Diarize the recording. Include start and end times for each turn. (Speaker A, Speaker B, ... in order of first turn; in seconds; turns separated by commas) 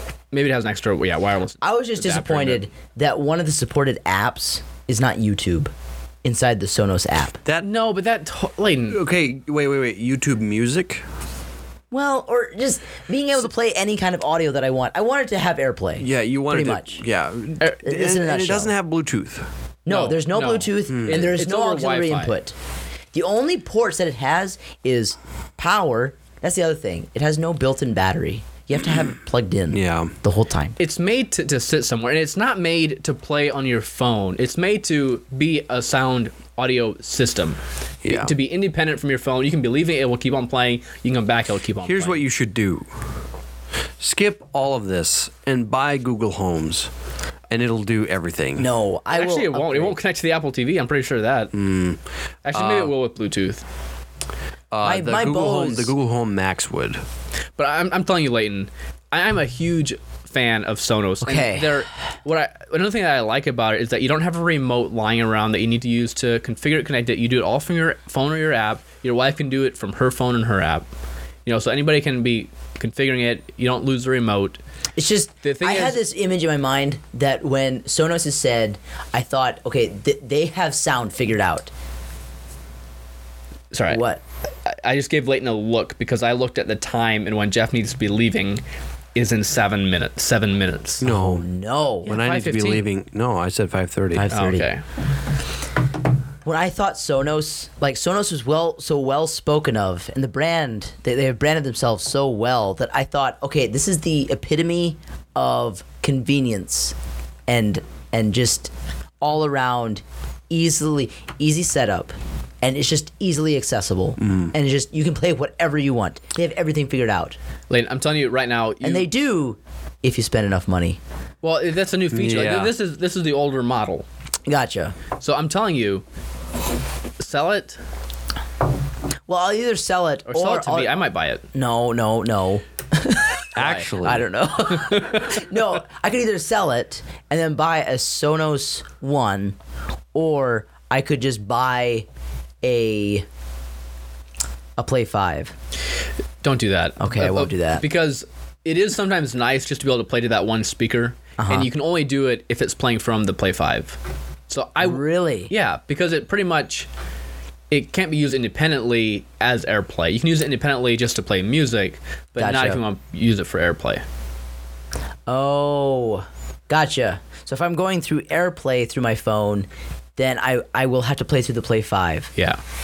Speaker A: 0.3-2.6, Speaker B: 1.6-5.7, Speaker B: 6.2-7.4, Speaker A: 7.6-9.0, Speaker C: 8.9-11.0, Speaker B: 11.9-17.0, Speaker C: 16.0-19.5, Speaker B: 17.8-18.7, Speaker B: 19.9-22.6, Speaker A: 19.9-22.4, Speaker C: 20.9-21.3, Speaker B: 23.1-30.8, Speaker C: 29.7-30.1, Speaker A: 30.8-42.2, Speaker C: 38.0-38.3, Speaker C: 41.8-42.9, Speaker C: 44.0-46.9, Speaker C: 47.5-48.7, Speaker B: 48.6-50.0, Speaker A: 49.1-51.5, Speaker C: 51.5-52.0, Speaker A: 52.5-53.6, Speaker C: 52.5-52.9, Speaker C: 54.7-57.0, Speaker B: 54.8-55.9, Speaker A: 57.6-70.9, Speaker B: 61.2-61.8, Speaker A: 71.5-74.6, Speaker B: 75.0-81.7, Speaker A: 75.4-76.0, Speaker A: 83.7-84.0, Speaker B: 83.9-84.2, Speaker A: 84.7-88.6, Speaker A: 89.2-91.0, Speaker C: 91.0-91.5, Speaker B: 91.0-92.1, Speaker C: 92.0-94.3, Speaker A: 92.1-92.9, Speaker B: 94.1-94.7, Speaker A: 94.3-94.8, Speaker B: 96.4-107.0, Speaker B: 107.5-117.4, Speaker C: 114.2-114.5, Speaker A: 117.7-119.1, Speaker B: 118.8-121.0, Speaker A: 121.4-124.1, Speaker C: 122.1-122.7, Speaker B: 124.5-125.0, Speaker A: 125.2-126.0, Speaker A: 127.2-127.8, Speaker B: 129.3-130.9, Speaker A: 130.3-131.4, Speaker B: 131.5-139.6, Speaker C: 133.6-134.3, Speaker A: 133.6-133.8, Speaker A: 134.8-135.3, Speaker B: 140.1-142.1, Speaker B: 142.6-143.3, Speaker B: 144.8-145.5, Speaker A: 146.4-154.0, Speaker B: 147.0-147.8, Speaker B: 151.4-151.7, Speaker A: 154.5-156.9, Speaker B: 154.8-155.5, Speaker A: 157.7-164.0, Speaker B: 162.4-162.8, Speaker B: 165.3-172.3, Speaker A: 172.4-172.6